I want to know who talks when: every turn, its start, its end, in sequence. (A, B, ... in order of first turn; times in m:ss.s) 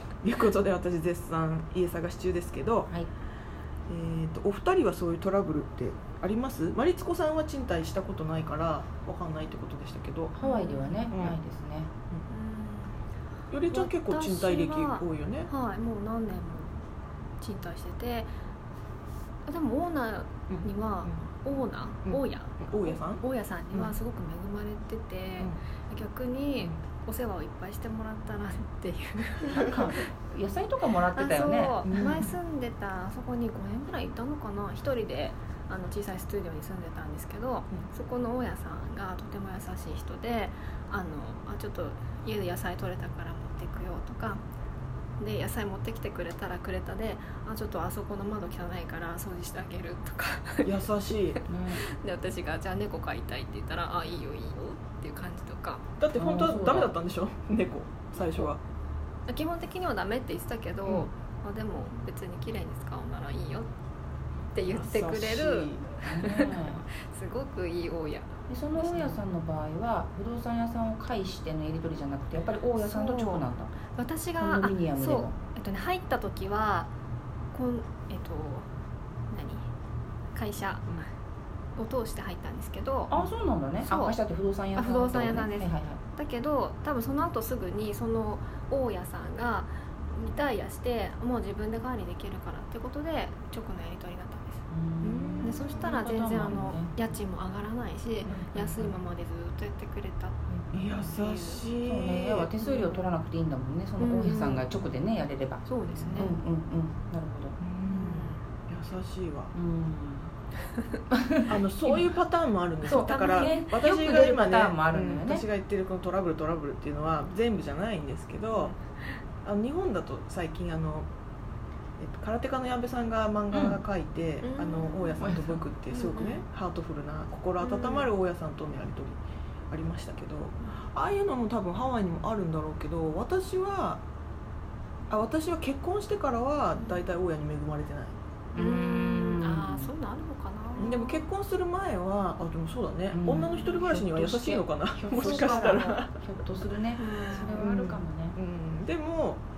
0:00.2-0:02.9 A
0:03.9-0:10.3 A
0:10.4-0:11.9 B
0:10.4-0:11.0 C
0:11.1-0:11.4 A
0:12.3-0:13.0 C
0:13.5-0:15.5 A
0:13.7-0:16.8 C
0:17.4-0:18.3 C
0:19.5-0:30.0 C
0:20.5-0:21.2 A
0:22.0-0:23.9 A
0:29.5-0:32.3 B
0:31.0-0:44.4 C
0:31.8-0:32.3 A
0:45.2-0:50.8 C
0:50.6-0:51.4 A
0:51.5-0:51.8 B
0:51.7-0:55.8 C
0:56.0-0:58.6 A
0:56.2-0:56.9 B
0:58.2-0:58.5 B
0:59.3-1:03.7 C
1:04.5-1:09.2 C
1:04.7-1:06.0 A
1:06.0-1:06.8 B
1:08.5-1:13.7 B
1:12.8-1:16.9 C
1:14.4-1:15.4 B
1:17.5-1:18.7 C
1:19.3-1:19.7 C
1:20.4-1:21.0 C
1:21.8-1:23.1 C
1:23.1-1:26.0 B
1:23.8-1:24.2 C
1:24.7-1:34.6 C
1:34.7-1:36.9 B
1:35.0-1:35.8 A
1:35.4-1:41.7 C
1:38.3-1:38.9 B
1:40.5-1:41.1 B
1:40.7-1:42.5 A
1:41.8-1:47.6 B
1:42.6-1:43.0 C
1:44.0-1:44.7 C
1:45.7-1:46.4 C
1:46.0-1:46.3 A
1:47.6-1:49.5 A
1:47.9-1:48.4 C
1:49.5-1:50.3 B
1:51.1-1:51.5 B
1:51.4-1:58.7 A
1:52.8-1:55.4 B
1:52.9-1:53.6 C
1:59.4-2:01.1 A
2:02.0-2:09.2 A
2:03.5-2:03.8 B
2:04.4-2:05.1 C
2:05.2-2:05.6 B
2:05.9-2:06.4 C
2:07.6-2:08.1 C
2:09.7-2:14.0 A
2:15.1-2:18.2 A
2:16.8-2:17.0 C
2:18.5-2:19.9 B
2:18.6-2:21.3 C
2:20.8-2:26.2 A
2:23.1-2:28.4 B
2:23.4-2:23.8 C
2:25.1-2:26.0 C
2:27.0-2:27.8 C
2:27.4-2:29.4 A